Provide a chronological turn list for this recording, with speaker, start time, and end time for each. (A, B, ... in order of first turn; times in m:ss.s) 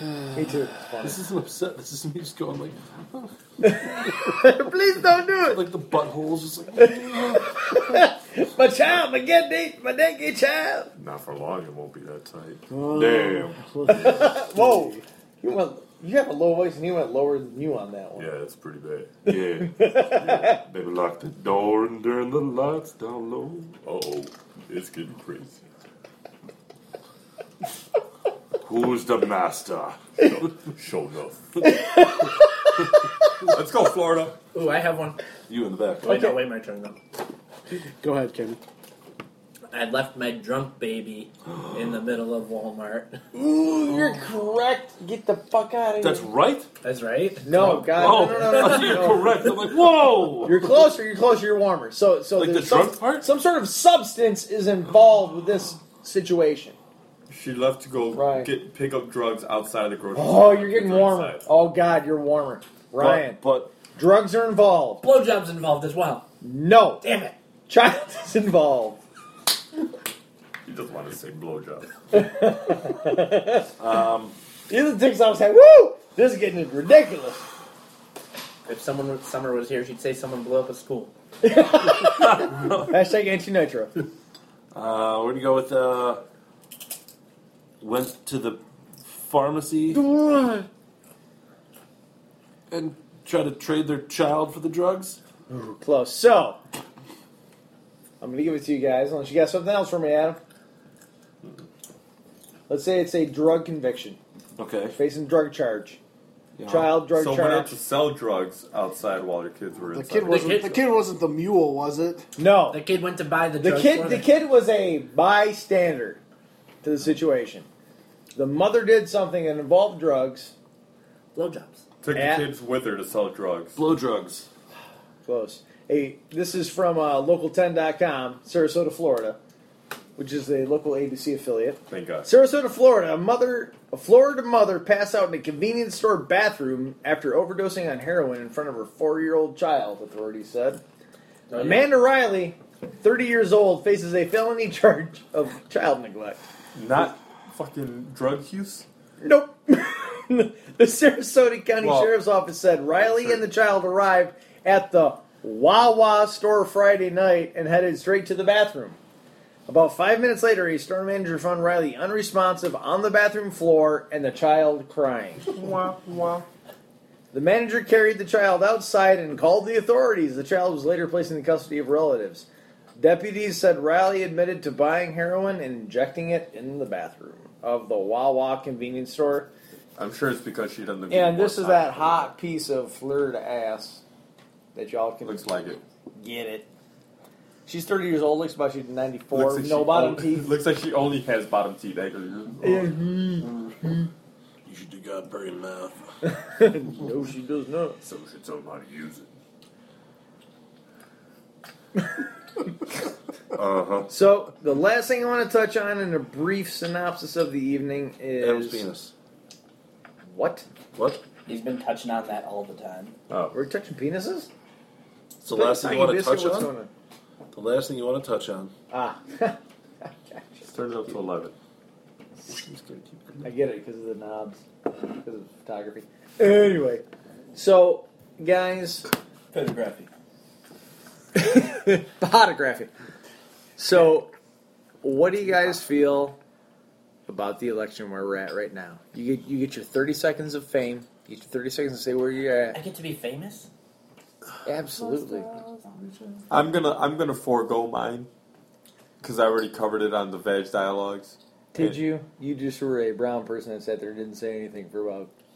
0:00.3-0:01.2 A
0:01.0-0:04.4 B
0:03.6-0:05.6 A
0:05.4-0:08.0 B
0:06.8-0:10.9 A
0:11.0-0:12.6 C
0:12.7-0:15.0 D
0:12.9-0:13.6 B
0:13.9-0:18.3 A
0:18.2-0:19.2 C
0:19.2-0:23.7 B
0:19.6-0:20.6 A
0:23.8-0:25.6 C
0:28.6-0:30.0 B
0:30.2-0:31.6 C
0:31.6-0:33.1 A
0:33.5-0:34.4 C
0:34.5-0:35.2 E
0:35.5-0:36.2 B
0:36.0-0:37.0 E
0:36.0-0:36.4 A
0:38.0-0:38.6 D
0:39.7-0:43.2 E
0:43.3-0:46.3 A
0:46.0-0:46.7 B
0:46.8-0:49.1 E
0:47.4-0:49.3 A
0:47.5-0:50.9 B
0:50.4-0:56.8 A
0:52.4-0:53.3 B
0:57.3-1:01.4 C
0:58.1-0:58.5 A
1:00.1-1:03.4 A
1:03.0-1:03.7 B
1:03.9-1:05.0 A
1:05.0-1:06.3 E
1:06.4-1:07.0 A
1:07.0-1:07.3 E
1:07.7-1:09.0 A
1:10.6-1:11.9 C
1:12.1-1:13.7 A
1:13.8-1:14.4 B
1:14.7-1:17.4 A
1:18.6-1:21.1 E
1:21.4-1:24.0 A
1:22.0-1:23.0 B
1:24.7-1:26.2 B
1:27.8-1:30.0 B
1:29.9-1:30.7 A
1:32.7-1:35.2 B
1:35.5-1:36.6 A
1:38.2-1:40.4 A
1:42.7-1:44.2 A
1:44.6-1:45.0 B
1:44.9-1:46.0 A
1:46.6-1:46.9 B
1:46.7-1:47.7 A
1:47.1-1:50.6 C
1:49.9-1:52.3 D
1:50.2-1:50.8 E
1:52.4-1:52.8 A
1:52.7-1:54.3 E
1:53.6-1:56.2 A
1:56.8-1:57.7 A
1:58.3-2:00.5 A
2:01.3-2:01.8 E
2:02.0-2:03.8 C
2:02.1-2:02.5 A
2:03.8-2:04.5 B
2:05.2-2:09.4 A
2:10.2-2:20.8 A
2:11.9-2:12.3 C
2:21.5-2:21.8 E
2:21.5-2:26.4 A
2:26.7-2:28.8 C
2:29.2-2:39.0 A
2:31.8-2:32.1 C
2:33.0-2:33.4 C
2:39.7-2:45.5 A
2:45.5-2:46.4 C
2:47.3-2:59.5 A
3:00.0-3:02.3 C
3:01.1-3:04.0 A
3:04.7-3:05.5 A
3:05.2-3:05.8 C
3:06.1-3:06.7 A
3:07.6-3:10.5 A
3:09.3-3:12.9 C
3:12.6-3:14.1 A
3:13.5-3:13.7 B
3:14.6-3:16.1 B
3:16.2-3:18.0 A
3:18.0-3:19.3 C
3:23.5-3:24.1 B
3:24.1-3:28.9 A
3:28.4-3:29.1 B
3:30.2-3:30.6 A
3:30.9-3:31.2 B
3:31.4-3:33.1 E
3:33.3-3:33.5 C
3:33.5-3:34.5 A
3:35.4-3:36.7 B
3:35.5-3:36.9 A
3:37.5-3:38.7 B
3:38.9-3:40.6 A
3:40.6-3:41.5 C
3:42.5-3:43.5 B
3:43.4-3:49.1 A
3:49.5-3:50.1 E
3:51.3-3:52.9 A
3:53.8-3:54.3 A
3:55.0-3:56.4 A
3:57.3-4:02.8 A
4:02.7-4:03.7 E
4:04.6-4:05.5 A
4:05.0-4:06.4 B
4:06.5-4:08.3 C
4:09.2-4:12.0 C
4:11.7-4:15.3 A